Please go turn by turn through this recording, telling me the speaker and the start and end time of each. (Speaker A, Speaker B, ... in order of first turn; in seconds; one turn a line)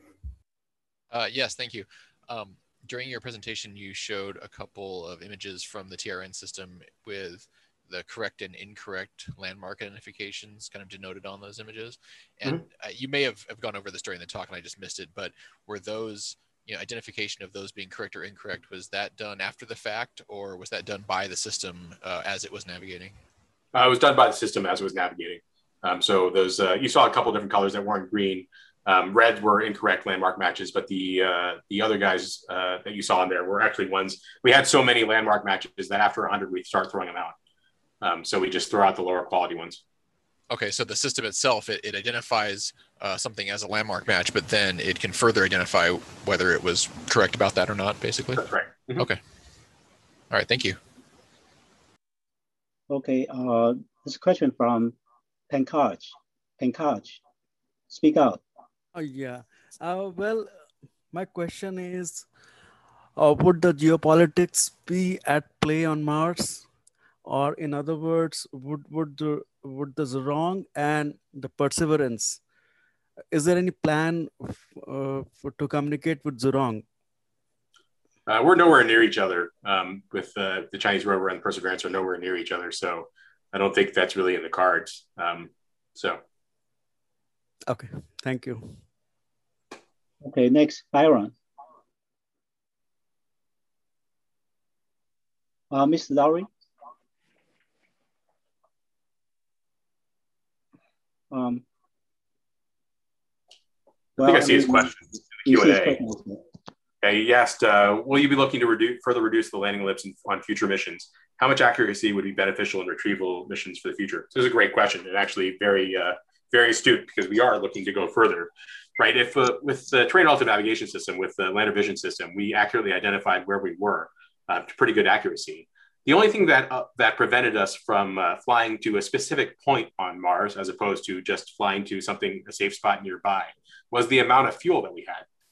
Speaker A: 1.1-23.2
Speaker B: 23.7-37.4
Speaker B: 38.0-39.8
Speaker A: 40.5-48.4
Speaker B: 48.4-49.1
Speaker A: 50.3-50.8
Speaker C: 52.9-55.0
Speaker C: 55.5-57.2
Speaker C: 57.9-58.4
Speaker D: 59.0-62.3
Speaker D: 63.2-66.7
Speaker D: 67.2-72.4
Speaker D: 73.3-76.8
Speaker B: 78.3-86.2
Speaker D: 87.7-88.8
Speaker C: 90.2-91.3
Speaker C: 95.7-96.5
Speaker C: 101.3-101.6
Speaker C: 104.2-104.9
Speaker B: 104.2-106.0
Speaker C: 105.5-106.4
Speaker B: 107.0-135.3